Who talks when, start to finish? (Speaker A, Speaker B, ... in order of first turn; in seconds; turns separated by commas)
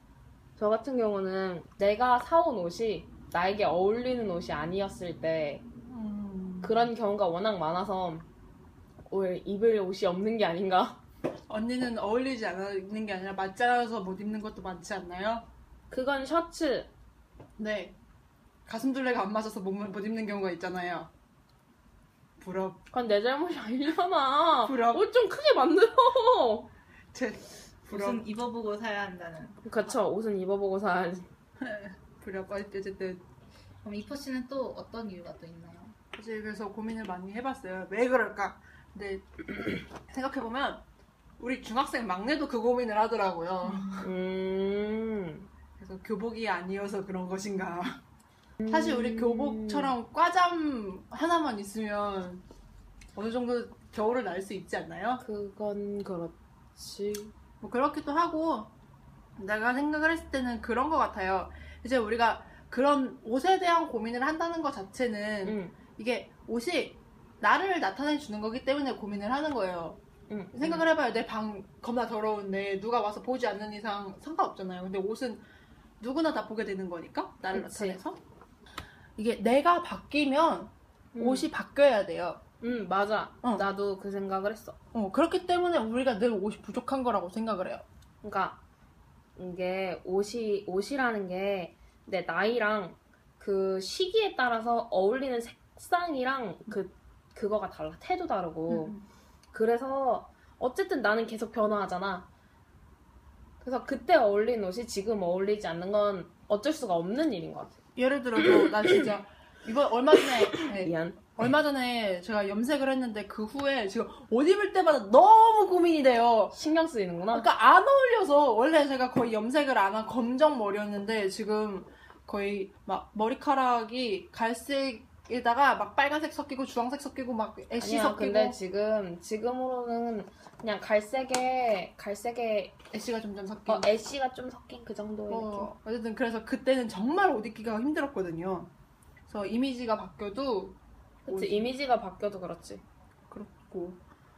Speaker A: 0.6-5.6, Speaker B: 5.9-6.9, Speaker A: 6.6-8.2, Speaker A: 9.1-11.0, Speaker B: 11.5-15.5, Speaker A: 15.9-16.9, Speaker B: 17.6-17.9, Speaker B: 18.6-21.1, Speaker B: 22.4-22.8, Speaker A: 22.9-26.7, Speaker B: 24.6-25.1, Speaker B: 27.1-28.2, Speaker C: 27.9-29.6, Speaker A: 29.6-31.3, Speaker B: 31.6-33.2, Speaker C: 33.8-35.9, Speaker B: 36.1-40.8, Speaker B: 41.4-44.1, Speaker C: 43.6-44.0, Speaker A: 44.0-45.5, Speaker B: 45.8-48.0, Speaker A: 48.6-49.9, Speaker B: 48.7-52.4, Speaker B: 53.1-55.2, Speaker A: 55.2-57.3, Speaker B: 57.6-58.7, Speaker B: 59.4-70.0, Speaker A: 65.4-65.8, Speaker A: 70.3-70.9, Speaker B: 70.5-75.4, Speaker B: 76.0-78.2, Speaker A: 77.5-78.0, Speaker B: 79.2-82.4, Speaker A: 81.1-81.5, Speaker A: 82.6-84.8, Speaker B: 83.4-83.7, Speaker B: 84.9-87.8, Speaker A: 88.2-88.6, Speaker A: 89.3-99.0, Speaker B: 98.7-99.0, Speaker A: 99.5-102.3, Speaker A: 103.6-107.8, Speaker B: 108.0-116.5, Speaker A: 110.6-111.2, Speaker A: 116.5-117.5, Speaker B: 117.3-128.6, Speaker A: 127.8-132.7, Speaker B: 132.9-133.9, Speaker A: 133.7-135.7, Speaker B: 135.3-138.7, Speaker B: 139.3-141.7, Speaker A: 141.2-142.8, Speaker B: 143.3-144.0